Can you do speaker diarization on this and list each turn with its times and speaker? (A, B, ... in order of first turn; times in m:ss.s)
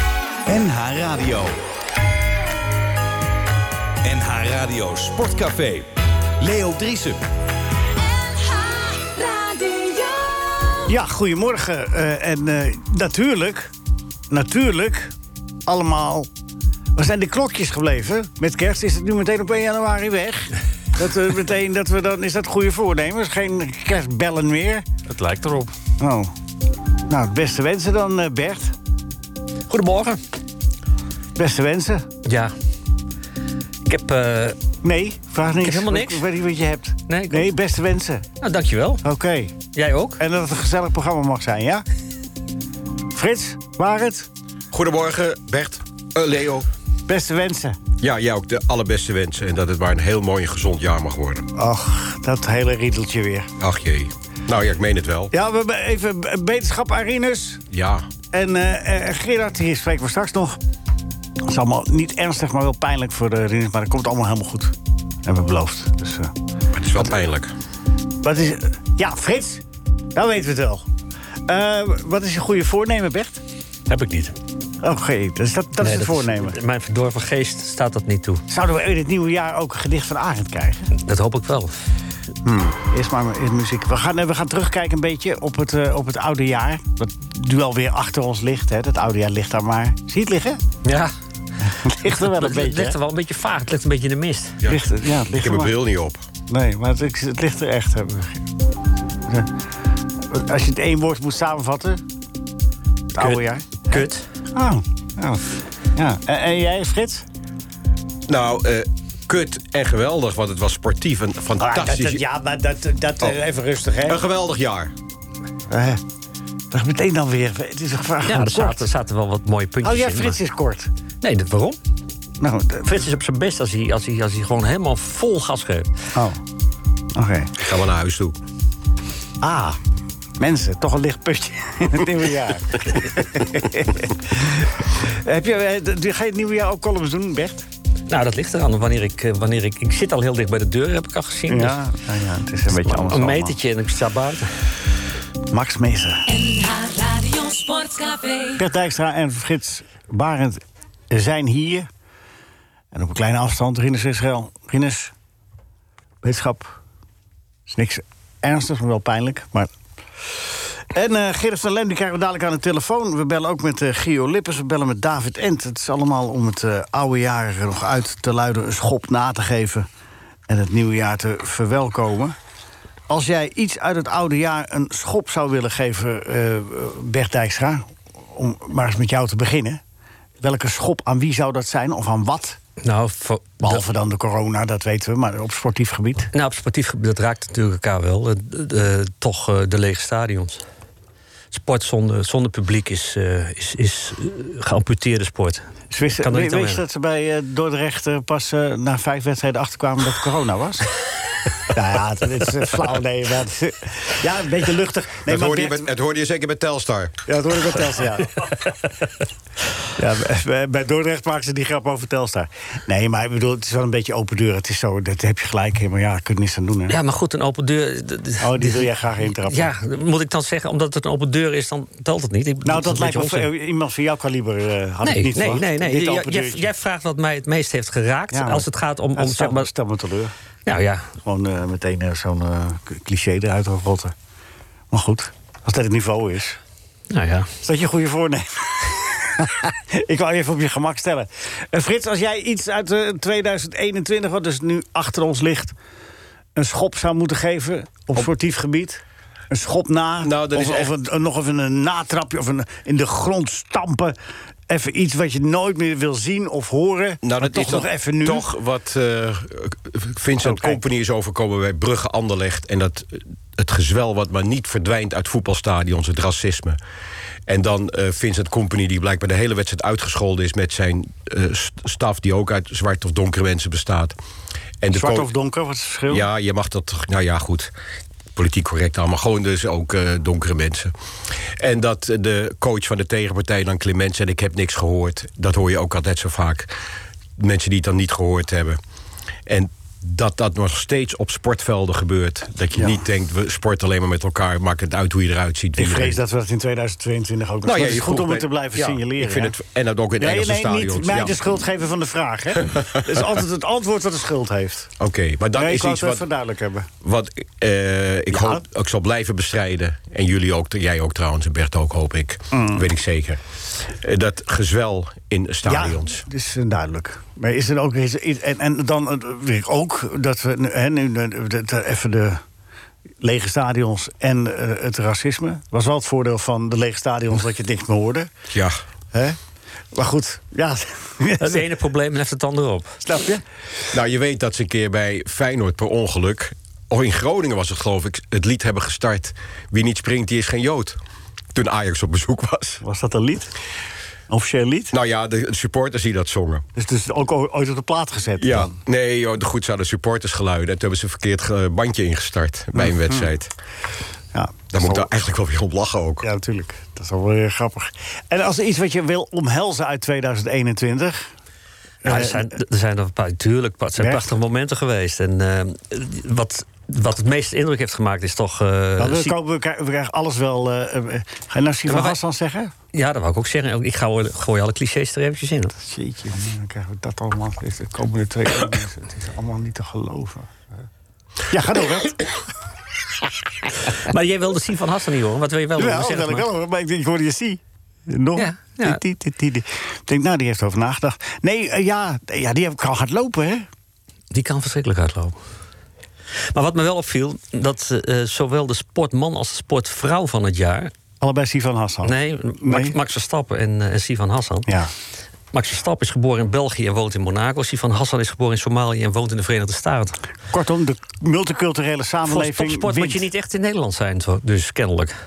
0:00.5-0:01.5 A
0:04.0-0:05.9 A
0:06.4-0:07.2 A
0:08.1-0:10.8 B
0:10.9-0:13.7 C
0:14.3-0:15.1 C
0:15.7-0:16.3 C
0:16.9-0:24.9 C
0:25.1-0:25.7 D
0:26.0-0:26.3 C
0:27.1-0:28.8 C
0:29.7-0:30.2 D
0:31.4-0:32.0 C
0:32.2-0:32.5 D
0:33.9-0:34.6 D
0:34.8-0:38.2 C
0:35.6-0:36.2 D
0:37.1-0:37.5 D
0:38.4-0:39.0 D
0:39.0-0:39.5 C
0:39.7-0:40.2 D
0:40.2-0:41.8 C
0:43.1-0:44.3 C
0:44.7-0:46.7 E
0:47.1-0:47.8 C
0:48.0-0:51.4 E
0:51.5-0:53.5 C
0:53.6-0:55.3 E
0:55.3-0:57.6 C
0:57.7-0:58.1 E
0:58.3-1:00.6 C
1:01.4-1:06.3 C
1:06.7-1:07.5 E
1:08.2-1:09.6 C
1:10.1-1:10.9 C
1:11.4-1:13.4 C
1:13.9-1:14.3 D
1:14.8-1:16.6 C
1:15.8-1:18.4 D
1:18.5-1:20.9 C
1:20.9-1:21.7 D
1:22.4-1:30.6 C
1:30.8-1:31.1 D
1:31.6-1:33.0 C
1:32.1-1:34.6 D
1:34.6-1:36.2 E
1:34.7-1:35.7 C
1:36.5-1:38.5 C
1:39.3-1:39.5 C
1:40.3-1:42.0 C
1:43.1-1:47.2 C
1:43.2-1:44.2 D
1:48.3-1:52.2 E
1:51.6-1:54.2 C
1:54.0-1:54.9 E
1:55.7-1:56.0 C
1:56.7-1:58.9 C
1:58.2-2:00.4 D
1:59.8-2:00.9 C
2:01.2-2:01.8 D
2:02.4-2:02.9 C
2:02.8-2:05.9 D
2:06.1-2:06.4 C
2:07.2-2:07.6 C
2:07.6-2:08.4 E
2:09.4-2:09.8 C
2:10.4-2:17.7 C
2:18.1-2:21.8 D
2:21.5-2:23.6 C
2:22.7-2:24.5 D
2:25.5-2:26.2 C
2:26.3-2:28.6 B
2:28.6-2:31.9 C
2:32.9-2:35.1 C
2:36.2-2:36.8 C
2:37.7-2:39.7 C
2:40.9-2:49.9 C
2:50.5-2:52.3 C
2:53.1-2:59.8 C
3:00.4-3:02.6 C
3:02.8-3:03.8 D
3:03.6-3:06.3 C
3:06.3-3:10.6 D
3:11.5-3:15.6 D
3:15.9-3:20.9 C
3:16.2-3:16.8 D
3:21.6-3:25.9 C
3:25.2-3:27.2 E
3:27.2-3:28.5 C
3:30.0-3:37.0 C
3:36.9-3:43.5 D
3:38.4-3:39.7 C
3:42.6-3:46.7 C
3:45.0-3:49.7 D
3:48.3-3:50.3 C
3:50.6-3:51.1 D
3:51.2-3:54.1 C
3:54.9-3:56.6 C
3:57.1-3:57.5 D
3:57.6-4:05.7 C
4:06.6-4:14.2 C
4:10.2-4:10.9 E
4:14.7-4:18.4 C
4:17.2-4:26.8 E
4:20.4-4:20.8 C
4:27.4-4:34.2 E
4:34.8-4:35.3 E
4:34.9-4:36.3 C
4:36.1-4:37.7 E
4:38.3-4:40.9 E
4:41.4-4:46.7 E
4:47.4-4:48.8 E
4:49.4-4:56.2 E
4:55.8-4:59.5 C
4:57.6-5:01.4 E
5:00.2-5:04.9 C
5:02.6-5:03.3 E
5:05.0-5:06.2 E
5:05.5-5:06.9 C
5:07.0-5:16.2 E
5:08.3-5:08.6 C
5:12.5-5:12.8 C
5:15.6-5:22.4 C
5:23.2-5:28.3 C
5:28.5-5:28.8 E
5:29.1-5:29.4 C
5:29.9-5:31.6 C
5:31.4-5:33.0 D
5:33.0-5:33.4 C
5:33.9-5:41.0 E
5:41.5-5:42.8 E
5:42.8-5:43.5 C
5:44.3-5:44.9 C
5:44.9-5:46.6 E
5:46.8-5:48.8 C
5:48.4-5:53.5 E
5:52.8-5:53.3 C
5:54.3-5:55.1 C
5:54.7-5:56.2 E
5:56.2-6:01.3 C
6:02.0-6:02.5 C
6:02.0-6:09.3 D
6:04.0-6:04.2 C
6:09.0-6:12.7 C
6:11.9-6:12.2 D
6:12.9-6:15.8 D
6:15.8-6:20.6 C
6:21.5-6:22.3 C
6:23.9-6:26.5 D
6:25.8-6:33.7 C
6:28.4-6:29.0 D
6:34.3-6:35.4 D
6:36.5-6:40.9 D
6:41.2-6:43.0 C
6:42.0-6:44.7 D
6:45.5-6:50.2 D
6:50.5-6:53.2 C
6:52.3-6:55.2 D